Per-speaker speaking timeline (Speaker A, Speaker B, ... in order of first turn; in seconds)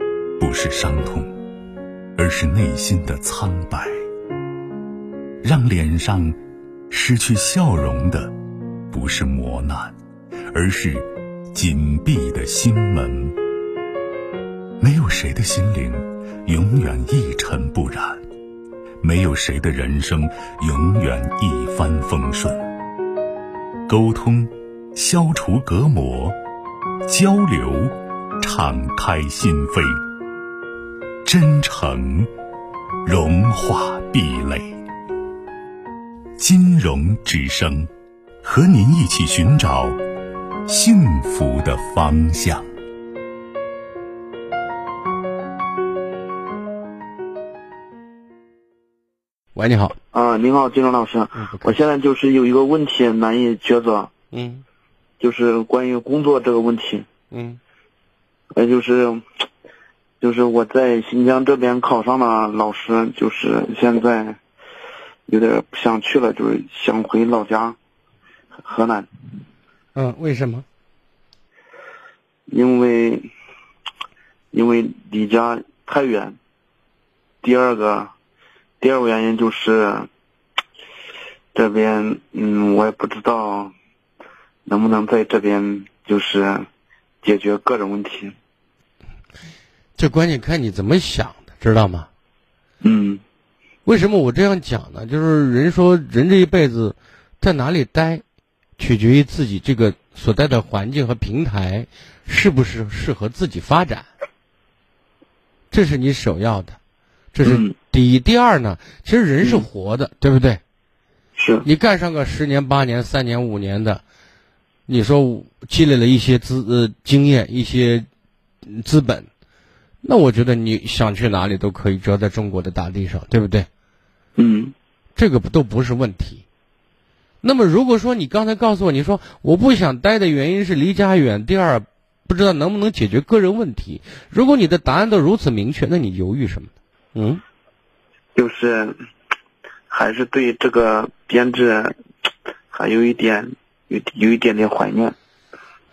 Speaker A: 0.4-1.3, 2.2-3.9, 5.4-6.4, 6.9-8.3, 8.9-9.9, 10.5-13.4, 14.8-18.2, 19.0-22.7, 23.9-26.4, 27.1-30.0, 31.2-32.3, 33.0-34.8, 36.4-37.9, 38.4-40.0, 40.7-42.7
Speaker B: 49.5-50.0, 51.4-51.8, 54.3-54.6, 57.3-57.6, 70.0-70.7, 90.0-92.1, 93.8-98.2, 98.8-104.1, 105.7-106.8, 107.3-110.6, 111.6-114.0, 114.9-118.1, 118.7-119.3, 120.0-123.7, 125.2-126.4, 127.4-137.4
Speaker C: 50.1-54.1, 55.2-57.1, 58.5-59.2, 60.2-64.4, 65.3-67.8, 68.6-69.1, 72.5-73.3, 74.5-76.4, 77.4-78.1, 78.8-80.1, 81.5-83.7, 84.7-86.7, 87.2-88.3, 92.8-93.2, 107.4-107.7, 109.4-109.7, 111.4-111.7, 124.4-124.7, 138.3-139.0, 139.9-142.0, 142.7-145.2